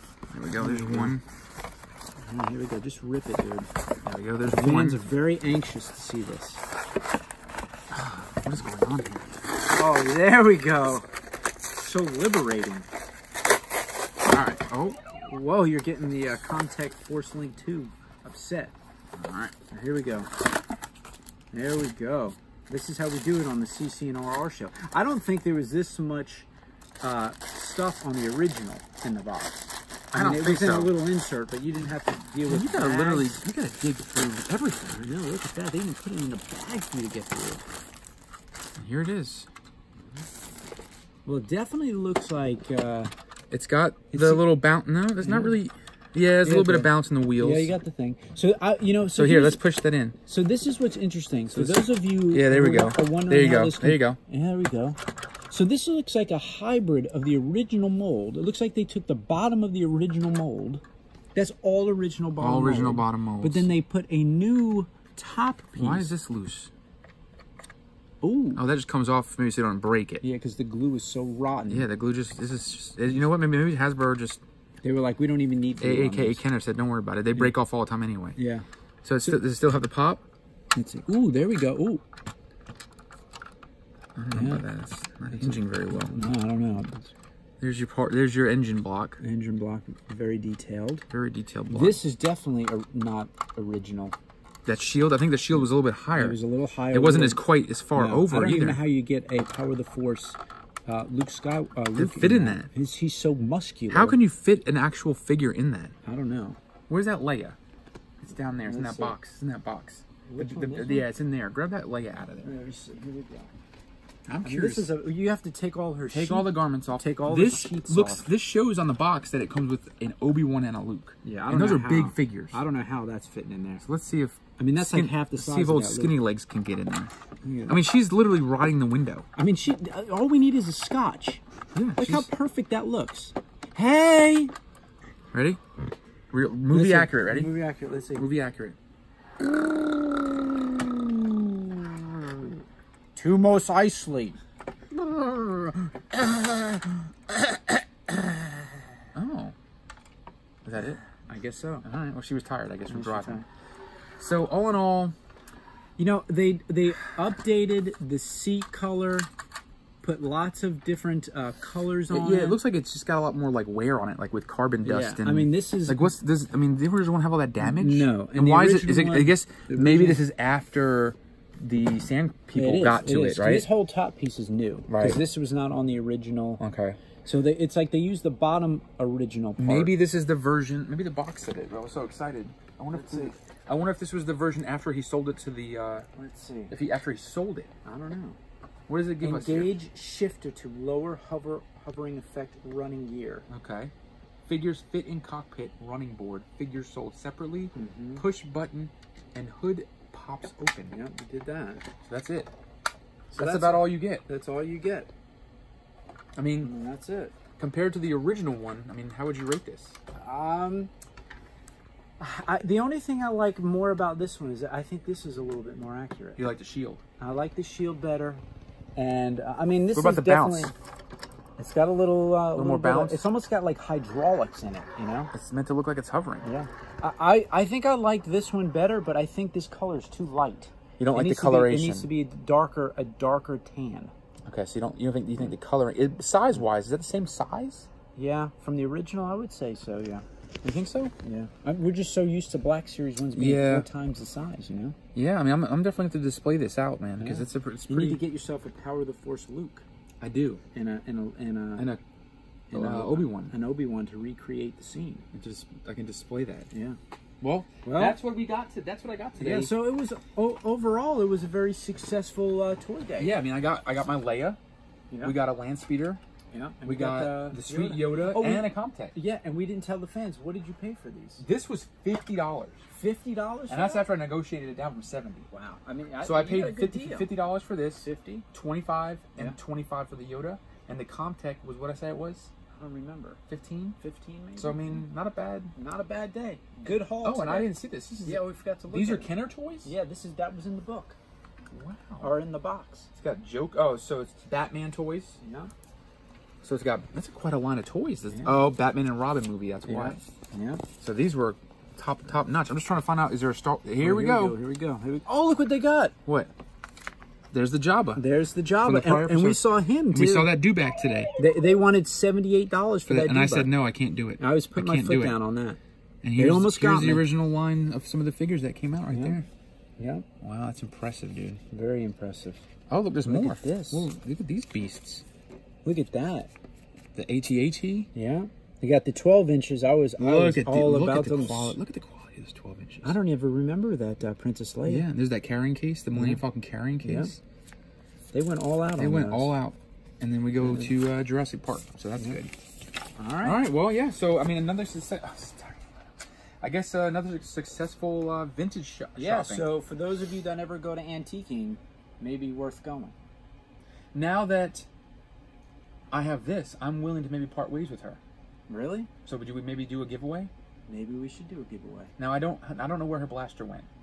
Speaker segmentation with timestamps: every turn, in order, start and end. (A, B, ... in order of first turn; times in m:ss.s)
0:00.3-0:01.2 A
0:00.5-0:01.2 B
0:02.2-0:03.7 B
0:04.0-0:05.1 A
0:04.5-0:06.6 B
0:07.9-0:09.4 A
0:09.7-0:11.1 B
0:11.8-0:12.9 B
0:14.2-0:15.0 A
0:15.2-0:18.7 B
0:19.1-0:19.5 A
0:19.7-0:20.3 B
0:21.5-0:26.5 B
0:27.0-0:33.4 B
0:30.1-0:31.0 A
0:32.5-0:35.0 A
0:34.9-0:37.7 B
0:38.8-0:39.5 A
0:41.3-0:43.1 B
0:43.5-0:47.7 A
0:44.1-0:44.5 B
0:45.2-0:45.6 B
0:46.4-0:49.6 B
0:49.2-0:50.2 A
0:50.3-0:55.0 B
0:51.5-0:54.2 A
0:55.5-1:00.8 B
1:01.4-1:06.1 B
1:02.4-1:03.7 A
1:05.8-1:06.7 A
1:08.2-1:08.6 B
1:08.6-1:10.2 A
1:10.2-1:11.9 B
1:11.7-1:14.4 A
1:14.8-1:16.4 B
1:15.8-1:18.4 A
1:18.4-1:18.7 B
1:19.0-1:20.2 A
1:20.7-1:22.0 B
1:24.2-1:26.3 A
1:24.3-1:24.7 B
1:25.3-1:27.1 B
1:27.6-1:29.2 A
1:29.2-1:31.1 B
1:31.1-1:32.0 A
1:31.7-1:34.2 B
1:34.6-1:36.4 A
1:36.1-1:37.4 B
1:36.9-1:38.8 A
1:37.9-1:44.2 B
1:42.0-1:42.7 A
1:43.9-1:46.0 A
1:46.0-1:46.6 B
1:46.9-1:47.6 A
1:48.2-1:52.5 A
1:48.5-1:49.2 B
1:50.3-1:51.1 B
1:52.4-1:53.5 B
1:54.3-1:54.9 A
1:54.4-1:58.2 B
1:56.1-2:02.6 A
2:01.2-2:03.8 B
2:03.8-2:07.1 A
2:04.6-2:06.1 B
2:07.4-2:07.8 B
2:07.7-2:09.3 A
2:09.4-2:11.4 B
2:11.7-2:12.3 A
2:12.0-2:14.5 B
2:15.3-2:15.6 A
2:16.3-2:17.5 A
2:16.7-2:18.3 B
2:18.2-2:18.8 A
2:19.4-2:22.6 B
2:23.2-2:24.4 B
2:25.0-2:26.9 B
2:28.1-2:28.6 B
2:29.2-2:29.6 A
2:30.6-2:31.0 A
2:31.2-2:31.9 B
2:31.8-2:33.4 A
2:32.9-2:33.4 B
2:34.2-2:35.2 A
2:36.0-2:39.3 B
2:40.0-2:42.6 B
2:42.1-2:53.7 A
2:44.8-2:46.1 B
2:47.6-2:50.2 B
2:52.5-2:56.6 B
2:54.9-2:55.2 A
2:56.6-2:57.0 A
2:57.2-2:59.9 B
2:59.6-3:06.1 A
3:02.9-3:03.4 B
3:06.1-3:06.8 B
3:06.7-3:07.7 A
3:07.8-3:08.4 B
3:08.9-3:09.8 A
3:09.2-3:13.5 B
3:13.5-3:13.9 A
3:14.5-3:21.0 A
3:17.8-3:18.3 B
3:20.9-3:21.9 B
3:22.0-3:22.5 A
3:23.3-3:25.1 B
3:23.3-3:24.2 A
3:26.4-3:26.7 A
3:26.6-3:27.4 B
3:27.6-3:30.0 A
3:30.1-3:30.9 B
3:32.2-3:36.5 B
3:36.4-3:37.0 A
3:37.2-3:38.4 B
3:39.0-3:40.7 B
3:39.9-3:40.7 A
3:41.6-3:45.3 B
3:42.5-3:43.2 A
3:45.3-3:46.5 A
3:46.4-3:54.1 B
3:51.0-3:52.1 A
3:54.5-3:57.9 A
3:58.2-4:00.2 B
4:00.6-4:01.1 A
4:01.2-4:05.0 B
4:03.4-4:03.9 A
4:05.1-4:08.2 A
4:07.2-4:09.8 B
4:10.2-4:10.6 A
4:10.7-4:11.9 B
4:12.7-4:15.3 B
4:12.7-4:13.5 A
4:15.3-4:16.7 A
4:16.7-4:17.0 B
4:17.4-4:19.8 A
4:17.8-4:18.2 B
4:19.4-4:23.3 B
4:23.2-4:24.6 A
4:25.1-4:25.4 B
4:25.2-4:26.2 A
4:26.5-4:31.4 B
4:26.8-4:29.2 A
4:31.4-4:32.8 A
4:32.9-4:34.1 B
4:33.7-4:35.5 A
4:35.5-4:37.3 B
4:36.2-4:42.5 A
4:37.9-4:38.5 B
4:42.7-4:43.4 B
4:43.5-4:44.0 A
4:44.0-4:45.0 B
4:44.6-4:45.7 A
4:45.8-4:49.3 B
4:47.2-4:49.9 A
4:49.8-4:51.2 B
4:51.7-4:52.3 A
4:52.2-4:53.1 B
4:53.2-4:55.4 A
4:55.4-4:55.7 B
4:56.6-5:00.2 A
4:58.3-4:58.6 B
4:59.9-5:00.8 B
5:01.0-5:04.6 A
5:04.0-5:06.2 B
5:06.3-5:06.5 A
5:07.5-5:08.2 A
5:08.2-5:10.6 B
5:08.8-5:11.4 A
5:11.4-5:13.7 B
5:13.1-5:15.4 A
5:14.4-5:15.8 B
5:16.2-5:19.5 A
5:16.4-5:17.3 B
5:19.1-5:19.4 B
5:20.0-5:20.3 B
5:20.4-5:21.6 A
5:21.7-5:22.6 B
5:22.9-5:25.2 A
5:23.2-5:24.1 B
5:25.8-5:26.5 B
5:27.2-5:28.1 A
5:28.1-5:31.8 B
5:30.2-5:33.2 A
5:33.0-5:35.1 B
5:34.8-5:37.4 A
5:36.1-5:36.4 B
5:37.0-5:37.3 B
5:38.3-5:39.5 B
5:39.0-5:42.5 A
5:43.2-5:43.6 B
5:43.4-5:49.7 A
5:49.2-5:53.2 B
5:54.1-5:54.9 A
5:56.1-5:58.2 A
5:58.7-5:59.1 B
5:59.3-6:00.5 A
6:00.9-6:02.1 B
6:02.2-6:03.9 A